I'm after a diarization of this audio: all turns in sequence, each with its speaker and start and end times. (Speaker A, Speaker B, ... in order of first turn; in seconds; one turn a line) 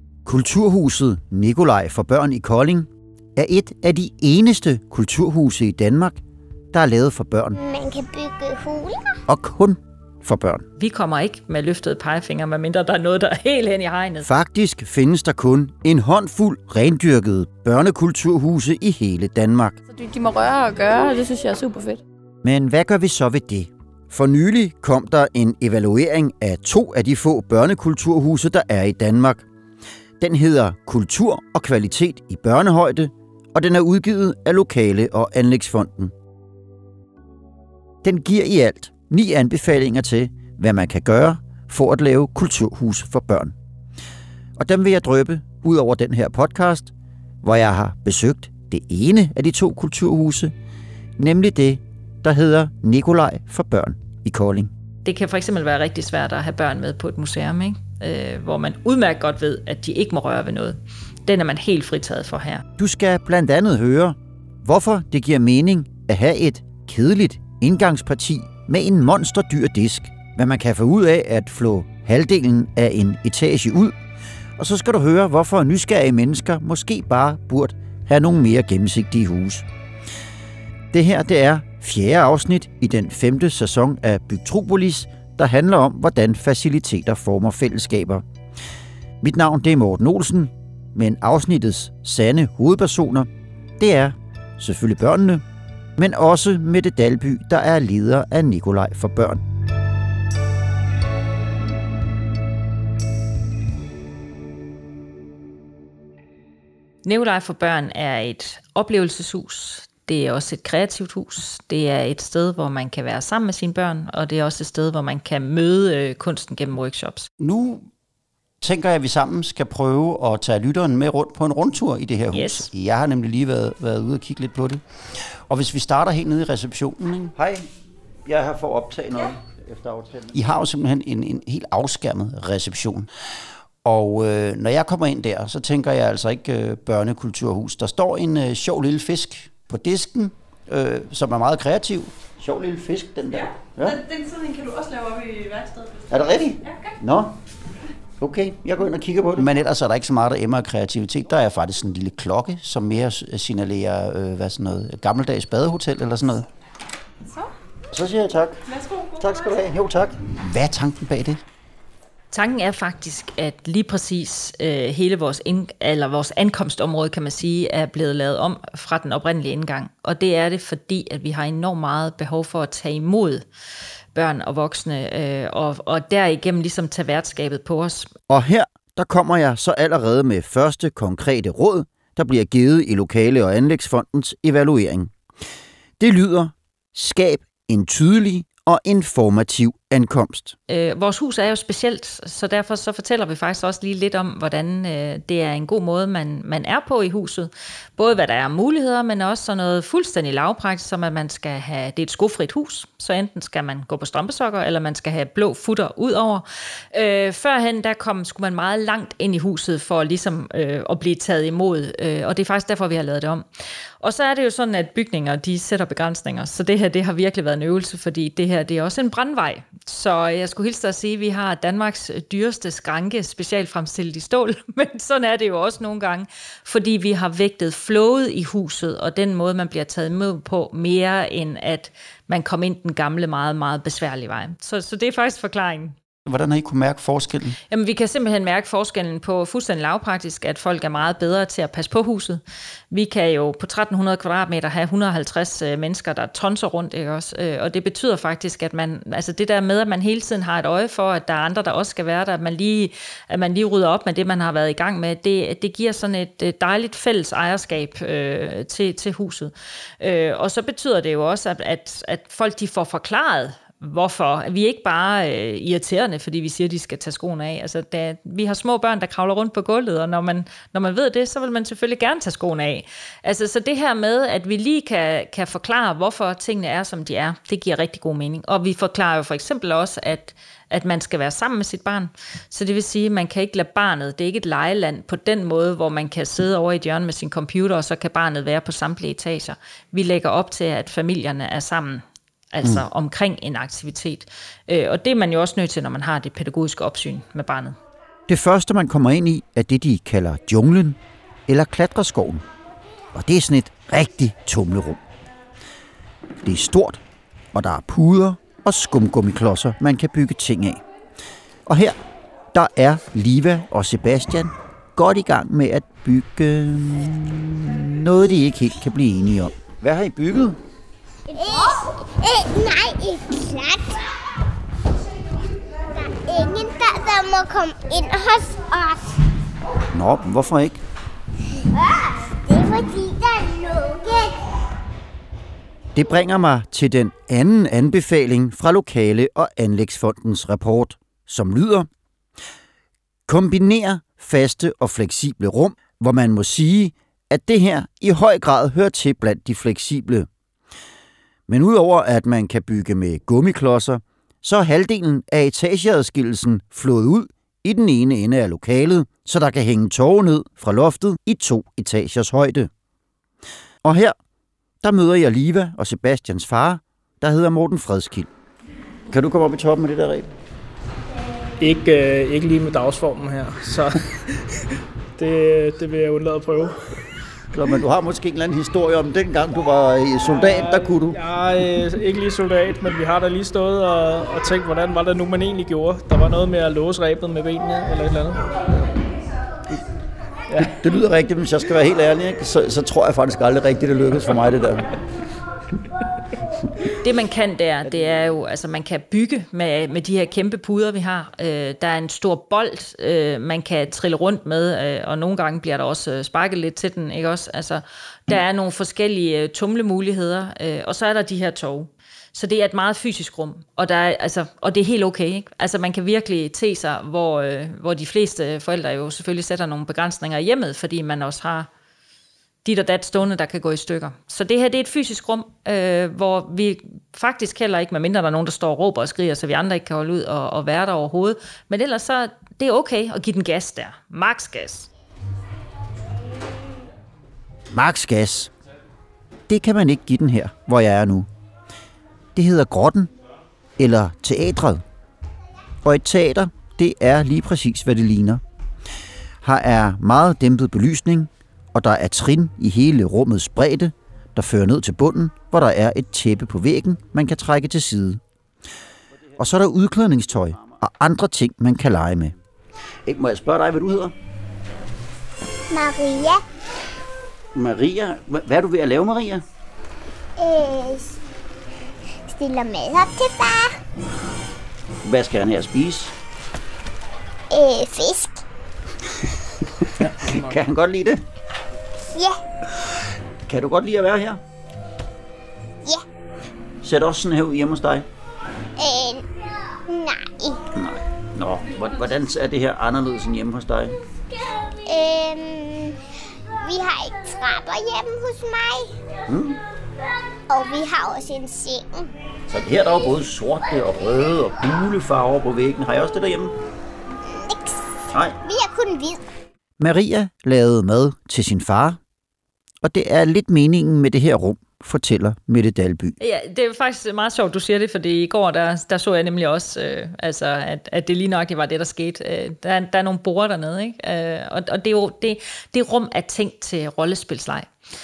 Speaker A: 0.2-6.2
Speaker A: 6.7-7.6
Speaker B: 7.5-9.2
Speaker A: 9.3-10.7
Speaker C: 10.8-14.3
Speaker A: 14.2-19.8
Speaker D: 19.9-22.0
Speaker A: 22.4-29.4
Speaker A: 30.2-36.1
Speaker A: 38.0-43.5
Speaker A: 44.6-46.9
Speaker A: 47.4-50.5
Speaker A: 51.2-54.7
Speaker C: 55.0-62.6
Speaker A: 62.8-74.0
Speaker A: 74.6-79.7
Speaker A: 80.9-88.2
Speaker A: 89.2-95.4
Speaker A: 96.0-99.4
Speaker C: 107.0-117.3
Speaker A: 117.4-117.9
Speaker A: 118.6-124.8
Speaker C: 122.3-122.7
Speaker A: 125.5-127.7
Speaker A: 128.2-133.1
Speaker A: 133.8-144.1
Speaker A: 146.1-147.4
Speaker A: 148.2-156.5
Speaker A: 157.9-161.4
Speaker C: 162.3-173.4
Speaker C: 174.1-178.1
Speaker A: 178.3-185.1
Speaker A: 186.0-190.5
Speaker C: 190.7-213.4
Speaker C: 214.0-235.9
Speaker A: 236.2-237.6
Speaker C: 237.7-297.8
Speaker A: 298.3-302.4
Speaker A: 303.1-305.0
Speaker A: 306.4-307.0
Speaker A: 307.5-310.8
Speaker A: 311.6-311.9
Speaker A: 312.5-320.6
Speaker B: 321.3-324.0
Speaker B: 325.9-329.2
Speaker A: 329.9-330.8
Speaker B: 331.7-334.3
Speaker A: 335.9-341.9
Speaker A: 343.3-350.3
Speaker A: 351.5-362.7
Speaker A: 363.8-364.1
Speaker A: 364.8-368.3
Speaker A: 369.1-370.3
Speaker E: 371.6-374.6
Speaker E: 375.2-377.0
Speaker A: 377.5-381.2
Speaker E: 380.4-388.4
Speaker A: 390.6-394.9
Speaker C: 397.0-421.7
Speaker C: 422.6-434.9
Speaker A: 437.7-438.5
Speaker A: 439.5-441.3
Speaker A: 442.3-443.1
Speaker A: 443.8-444.8
Speaker A: 445.8-448.4
Speaker A: 449.4-458.2
Speaker A: 459.4-462.3
Speaker A: 463.1-464.1
Speaker B: 465.7-466.4
Speaker A: 467.5-469.4
Speaker B: 470.4-471.2
Speaker B: 472.2-473.8
Speaker A: 475.0-476.1
Speaker B: 477.5-478.4
Speaker A: 479.8-481.2
Speaker B: 482.0-482.4
Speaker A: 483.4-484.4
Speaker A: 486.8-488.1
Speaker B: 488.8-489.3
Speaker B: 489.9-490.6
Speaker A: 490.7-494.0
Speaker B: 494.9-496.0
Speaker B: 496.6-499.0
Speaker A: 499.3-499.6
Speaker B: 500.5-502.1
Speaker A: 502.5-506.5
Speaker B: 507.3-509.2
Speaker A: 508.1-508.4
Speaker A: 509.8-512.0
Speaker A: 512.8-516.2
Speaker C: 516.2-527.7